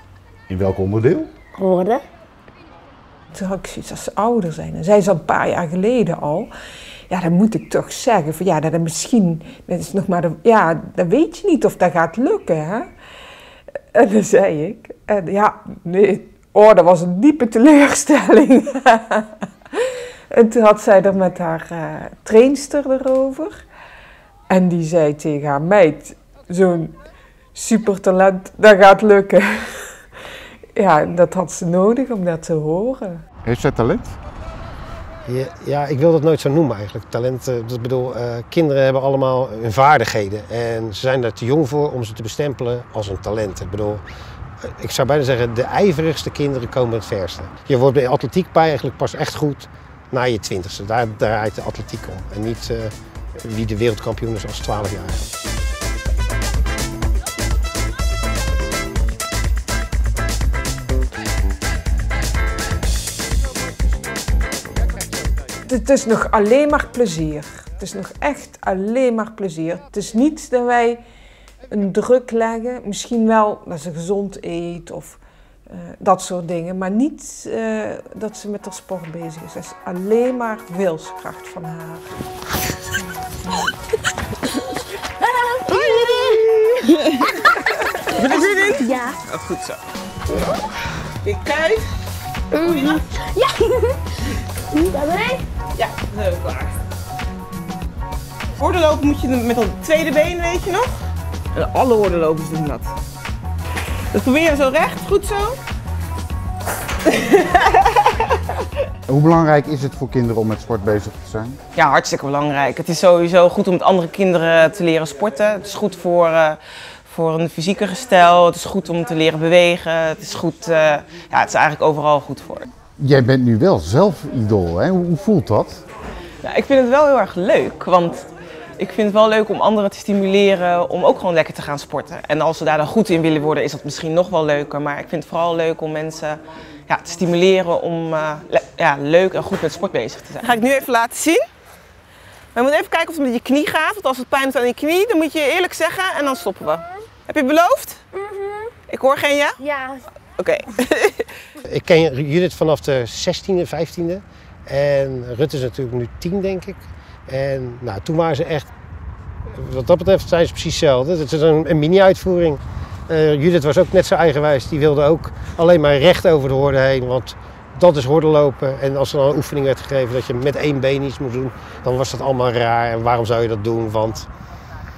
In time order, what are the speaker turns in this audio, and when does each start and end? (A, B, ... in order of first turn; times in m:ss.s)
0:00.5-0:01.3 A
0:01.6-0:02.0 B
0:03.4-0:06.5 C
0:07.1-0:12.8 C
0:13.9-0:19.3 C
0:20.3-0:23.5 C
0:24.5-0:26.1 C
0:27.6-0:29.4 C
0:30.8-0:33.0 C
0:33.4-0:34.2 A
0:35.2-0:44.0 D
0:44.6-0:55.2 D
1:05.6-1:11.0 C
1:11.7-1:15.2 C
1:16.0-1:22.0 C
1:25.3-1:26.3 B
1:25.7-1:29.8 E
1:28.8-1:29.1 B
1:31.2-1:31.9 E
1:32.5-1:34.0 B
1:32.6-1:33.1 E
1:34.7-1:35.4 B
1:35.7-1:36.8 E
1:38.6-1:40.9 E
1:41.5-1:42.9 E
1:44.1-1:45.6 E
1:47.0-1:48.5 E
1:49.1-1:51.6 A
1:51.7-2:02.7 E
2:03.0-2:05.8 A
2:06.4-2:21.4 E
2:22.5-2:28.0 E
2:28.2-2:28.7 B
2:28.9-2:29.6 E
2:29.6-2:30.0 B
2:30.4-2:31.3 E
2:31.6-2:38.7 D
2:39.5-2:54.3 D